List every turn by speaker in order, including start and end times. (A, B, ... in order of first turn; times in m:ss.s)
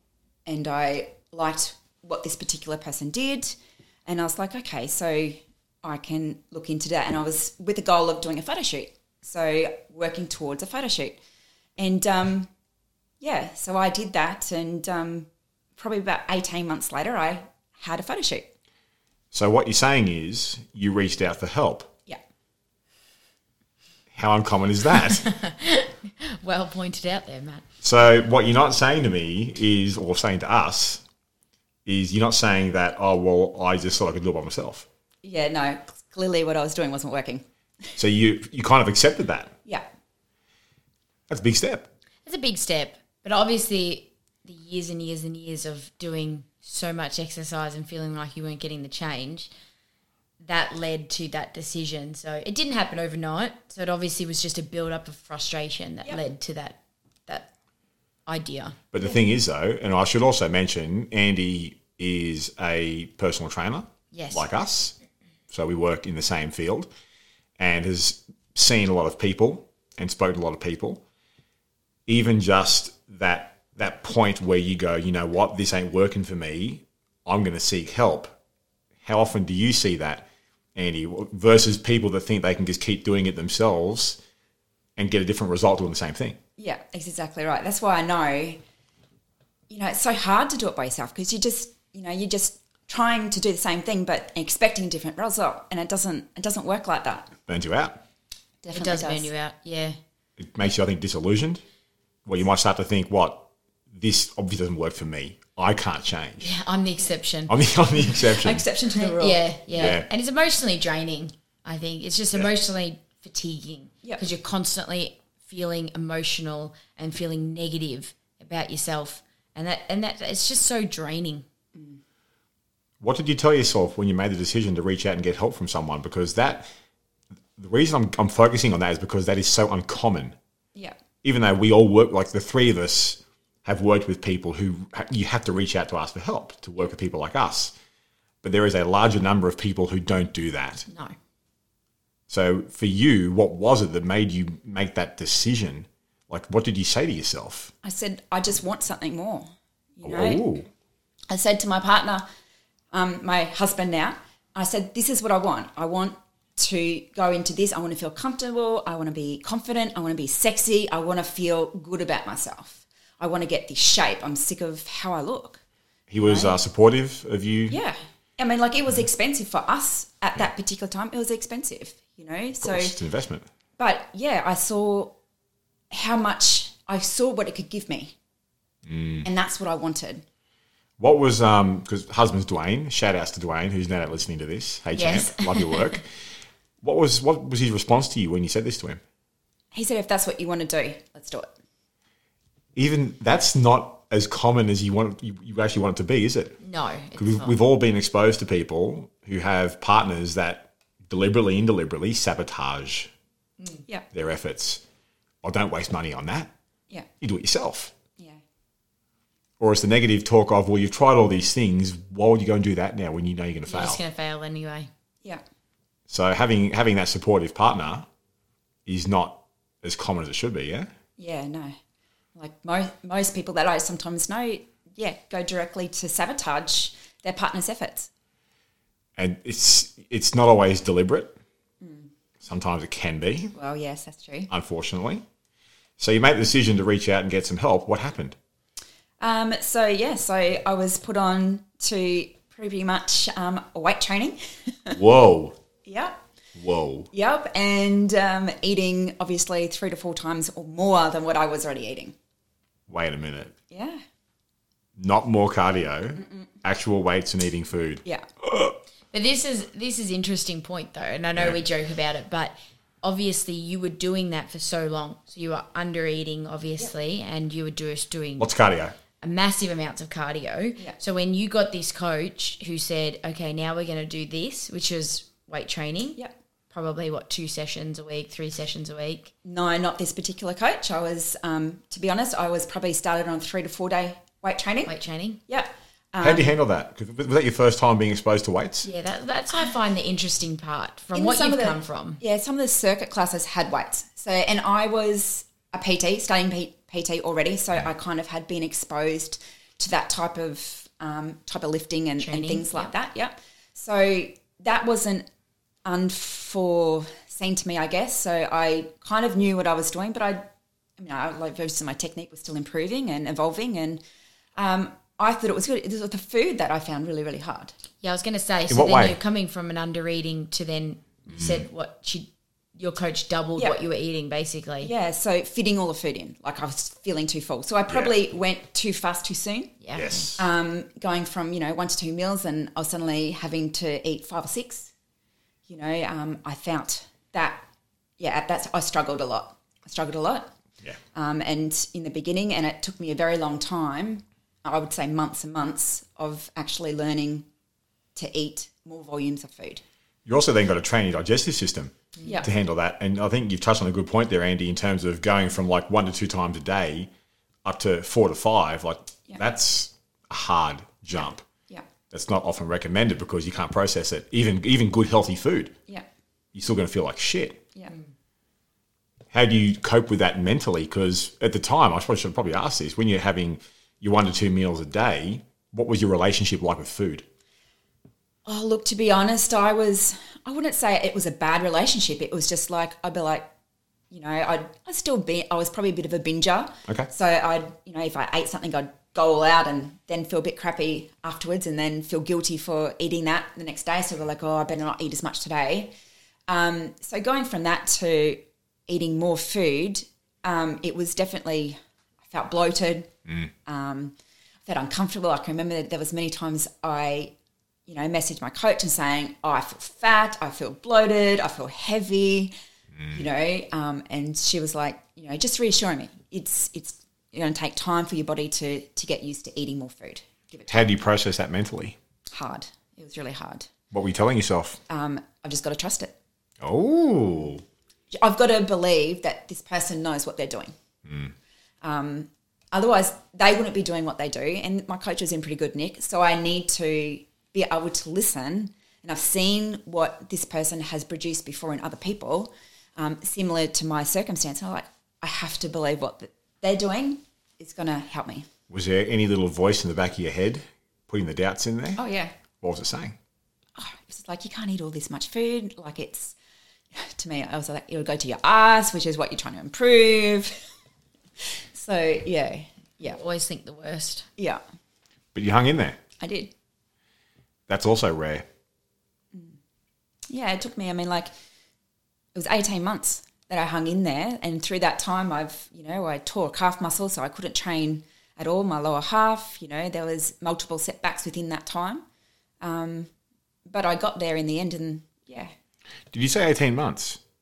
0:00.4-0:11.2 A
0:11.8-0:12.5 A
0:13.2-0:18.5 A
0:19.3-0:21.9 B
0:24.1-0:25.2 B
0:25.0-0:27.6 C
0:27.8-0:31.0 B
0:31.8-0:34.9 B
0:35.2-0:37.4 A
0:38.0-0:39.5 B
0:41.3-0:41.9 B
0:42.2-0:49.5 C
0:50.4-0:57.5 C
0:58.2-0:58.8 C
0:58.9-1:04.9 B
1:04.1-1:04.5 C
1:05.5-1:06.9 B
1:07.6-1:11.0 B
1:12.1-1:18.3 B
1:19.0-1:24.2 B
1:25.0-1:26.4 B
1:26.6-1:28.6 A
1:29.7-1:37.3 A
1:37.5-1:38.0 B
1:38.6-1:39.3 A
1:38.7-1:40.0 C
1:40.4-1:41.6 B
1:42.2-1:46.5 B
1:46.4-1:47.5 C
1:47.5-1:48.6 B
1:48.1-1:50.0 A
1:48.9-2:01.4 C
1:49.7-1:50.1 B
2:01.7-2:02.0 A
2:03.0-2:06.7 B
2:07.6-2:10.3 B
2:11.2-2:17.7 B
2:18.4-2:20.9 B
2:20.9-2:21.1 C
2:22.3-2:27.7 B
2:27.8-2:30.4 A
2:30.0-2:30.7 B
2:31.3-2:32.2 A
2:32.9-2:45.6 A
2:46.1-2:47.8 B
2:46.2-2:46.6 A
2:47.7-2:53.0 A
2:52.6-2:53.5 B
2:53.8-2:55.1 A
2:55.9-2:58.1 A
2:58.8-2:59.3 B
2:59.2-3:00.2 A
3:01.0-3:06.1 B
3:05.0-3:06.0 C
3:06.8-3:09.0 B
3:09.7-3:11.5 A
3:12.7-3:16.6 B
3:16.6-3:17.6 C
3:17.2-3:23.1 B
3:24.1-3:24.8 B
3:25.4-3:26.5 B
3:27.2-3:27.9 B
3:29.6-3:34.0 B
3:33.7-3:34.9 C
3:36.1-3:38.1 B
3:38.8-3:40.9 B
3:41.2-3:41.7 A
3:42.3-3:48.1 A
3:49.2-3:51.4 B
3:51.8-3:52.1 A
3:52.4-3:53.5 B
3:53.5-3:54.5 A
3:54.5-3:55.2 B
3:56.0-3:58.4 B
3:59.2-4:05.0 A
4:04.9-4:05.6 B
4:05.8-4:06.2 A
4:06.6-4:07.1 B
4:07.1-4:12.1 A
4:12.9-4:13.5 B
4:13.7-4:14.0 A
4:15.0-4:18.7 B
4:16.2-4:16.4 A
4:19.1-4:28.5 C
4:28.4-4:29.0 B
4:29.2-4:36.2 C
4:36.7-4:39.3 C
4:39.4-4:44.9 A
4:44.9-4:45.4 C
4:45.5-4:46.5 A
4:46.2-4:48.9 B
4:48.8-4:52.2 C
4:51.1-5:05.3 A
5:02.2-5:02.9 C
5:05.8-5:10.4 A
5:11.0-5:14.0 A
5:14.6-5:17.8 A
5:18.0-5:24.9 C
5:18.7-5:19.2 B
5:21.3-5:21.6 B
5:24.8-5:29.8 A
5:27.9-5:28.1 B
5:29.8-5:30.2 C
5:29.9-5:30.4 B
5:30.4-5:34.9 A
5:35.7-5:37.6 A
5:38.2-5:40.5 A
5:41.1-5:47.5 A
5:48.1-5:49.8 A
5:50.2-5:57.1 B
5:52.2-5:52.5 A
5:57.6-6:01.4 B
6:02.1-6:05.8 B
6:06.5-6:07.6 B
6:09.3-6:17.2 B
6:18.4-6:23.5 A
6:24.1-6:35.9 A
6:36.5-6:43.1 A
6:43.6-6:44.1 A
6:44.6-6:47.3 A
6:47.9-6:52.5 A
6:53.1-7:00.9 A
7:00.7-7:02.0 B
7:02.3-7:03.7 A
7:03.9-7:04.8 B
7:04.9-7:06.1 A
7:06.6-7:07.6 B
7:08.1-7:10.7 A
7:11.0-7:11.3 B
7:11.8-7:28.5 A
7:28.7-7:32.0 B
7:32.0-7:32.3 A
7:32.6-7:33.2 B
7:33.8-7:36.3 A
7:36.9-7:40.6 A
7:41.7-7:43.2 A
7:43.0-7:44.3 C
7:45.3-7:46.0 B
7:46.2-7:46.5 A
7:47.7-7:48.4 B
7:49.3-7:49.6 A
7:50.3-7:51.3 A
7:52.3-8:02.0 A
8:02.6-8:03.1 A
8:03.7-8:05.5 A
8:06.1-8:07.2 B